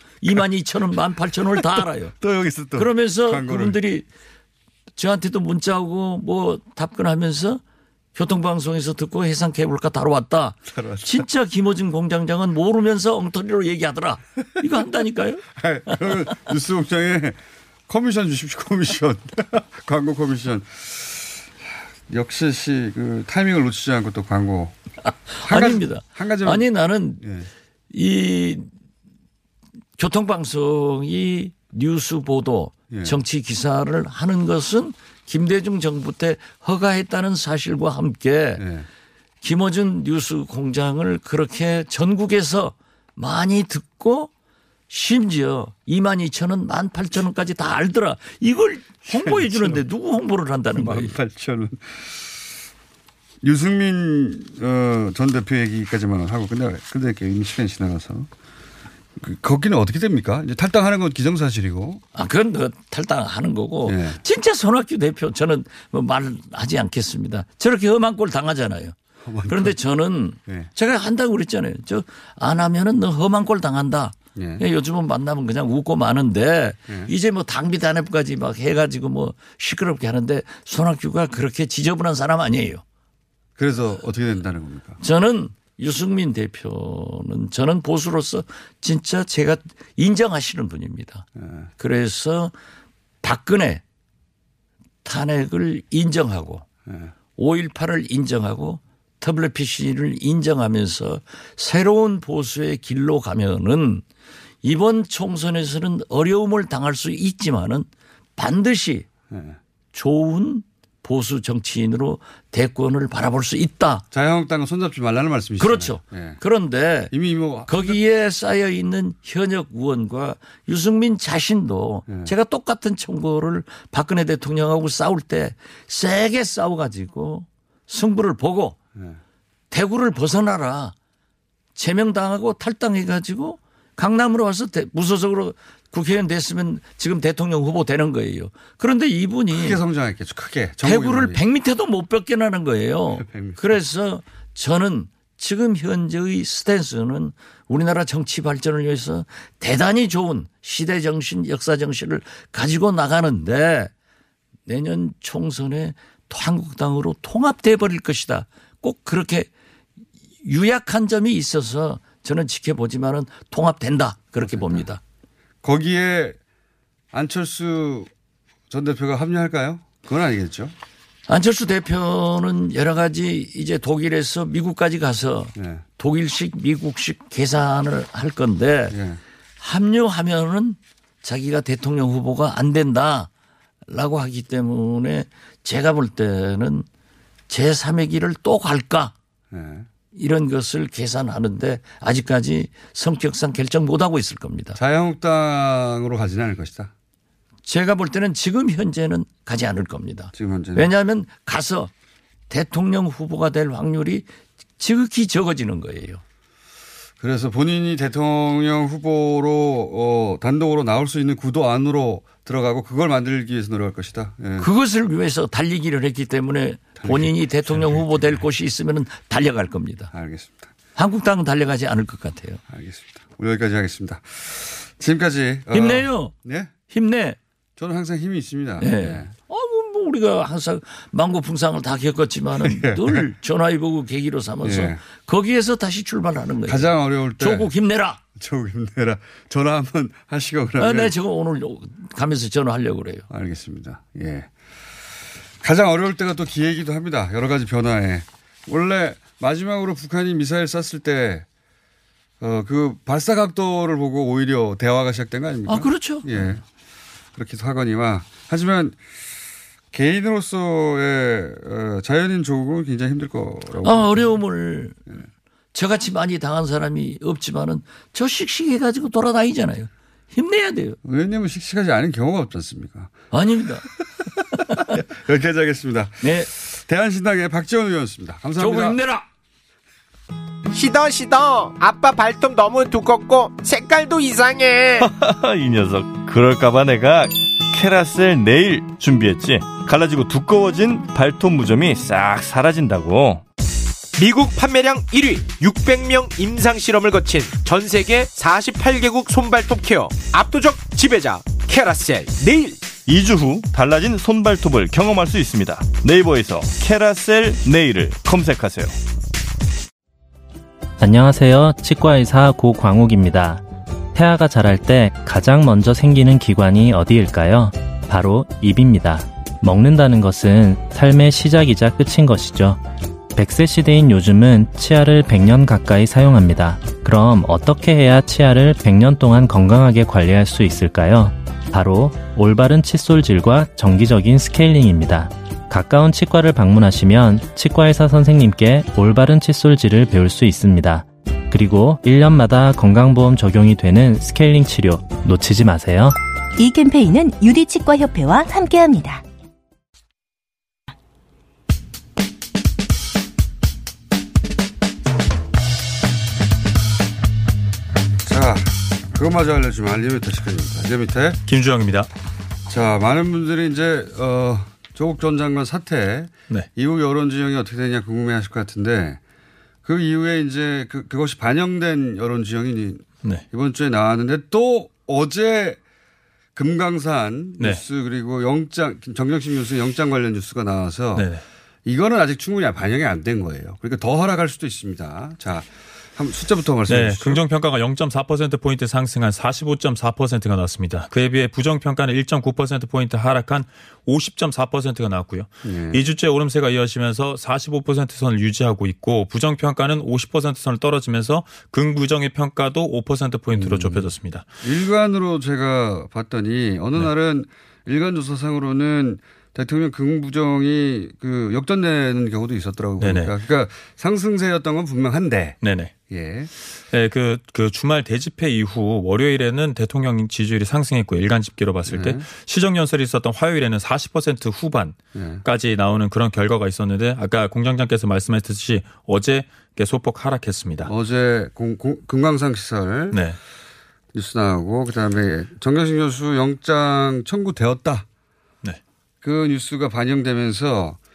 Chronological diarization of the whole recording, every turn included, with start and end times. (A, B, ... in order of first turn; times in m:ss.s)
0:00.2-0:02.1 A
0:01.8-0:03.8 B
0:02.7-0:04.0 A
0:05.0-0:07.6 A
0:08.1-0:16.4 A
0:10.7-0:11.2 B
0:15.6-0:24.7 B
0:25.0-0:27.2 A
0:25.4-0:26.7 B
0:27.2-0:27.5 B
0:27.9-0:28.7 A
0:30.0-0:38.6 A
0:32.9-0:33.2 B
0:38.6-0:38.9 B
0:39.4-0:44.3 A
0:44.9-0:51.2 A
0:49.0-0:49.8 B
0:50.7-0:52.5 B
0:53.4-0:58.3 B
0:59.2-1:02.0 B
1:02.1-1:09.0 A
1:03.8-1:04.2 B
1:09.2-1:09.8 B
1:09.5-1:22.8 A
1:14.3-1:14.6 B
1:23.6-1:25.0 B
1:25.0-1:31.2 A
1:31.4-1:31.7 B
1:31.8-1:32.5 A
1:33.2-1:33.8 A
1:35.0-1:36.6 A
1:36.8-1:37.1 B
1:37.4-1:44.0 A
1:44.6-1:49.1 A
1:49.3-1:49.6 B
1:49.9-1:54.0 A
1:54.1-1:56.4 B
1:55.6-1:57.1 A
1:57.1-1:58.0 B
1:57.7-2:08.8 A
2:02.1-2:02.3 B
2:08.9-2:09.2 B
2:09.7-2:10.9 A
2:11.8-2:19.8 A
2:19.5-2:21.4 B
2:20.8-2:33.9 A
2:23.2-2:23.6 B
2:34.6-2:39.5 A
2:40.4-2:45.0 A
2:44.4-2:44.8 B
2:45.6-2:46.4 B
2:47.1-2:48.1 B
2:48.7-2:50.7 B
2:51.3-2:59.0 A
2:55.6-2:55.8 B
2:58.9-2:59.2 B
2:59.6-3:03.3 A
3:03.9-3:06.9 A
3:07.5-3:09.1 A
3:09.5-3:09.9 B
3:10.1-3:14.8 A
3:14.8-3:16.9 B
3:17.6-3:21.9 A
3:20.3-3:20.9 B
3:22.5-3:24.2 A
3:24.8-3:26.2 A
3:27.2-3:34.7 B
3:34.6-3:40.1 A
3:37.0-3:38.4 B
3:40.1-3:40.7 B
3:40.9-3:42.6 A
3:42.7-3:46.7 B
3:45.7-3:46.3 A
3:46.9-3:47.4 A
3:47.8-3:49.3 B
3:48.8-3:58.2 A
3:52.6-3:53.3 B
3:54.6-3:55.0 B
3:56.7-3:57.7 B
3:58.4-4:01.1 B
4:00.8-4:03.2 A
4:03.3-4:04.5 B
4:05.6-4:11.4 B
4:12.4-4:16.6 B
4:15.7-4:16.3 A
4:17.3-4:19.0 B
4:19.9-4:24.3 B
4:23.8-4:25.0 A
4:25.7-4:31.0 A
4:31.0-4:33.1 B
4:33.3-4:33.9 A
4:34.5-4:35.0 A
4:34.9-4:39.0 B
4:36.2-4:36.5 A
4:38.6-4:39.3 A
4:40.7-4:45.0 C
4:45.0-4:53.4 D
4:54.2-5:02.8 C
5:03.0-5:09.0 D
5:11.0-5:22.8 E
5:23.3-5:46.2 E
5:46.6-5:49.2 F
5:58.2-6:01.4 B
6:01.4-6:02.1 G
6:02.7-6:09.2 B
6:09.8-6:15.8 B
6:16.5-6:21.3 B
6:21.1-6:21.4 G
6:21.8-6:27.4 B
6:26.9-6:44.4 G
6:35.6-6:36.0 B
6:43.5-6:44.1 B
6:44.6-6:55.6 B
6:53.0-6:53.4 G
6:55.6-6:56.0 G
6:56.1-6:56.5 B
6:56.8-7:10.9 G
7:01.9-7:02.2 B
7:05.1-7:05.4 B
7:10.8-7:13.2 B
7:13.1-7:13.4 G
7:14.1-7:18.0 B
7:19.2-7:21.0 B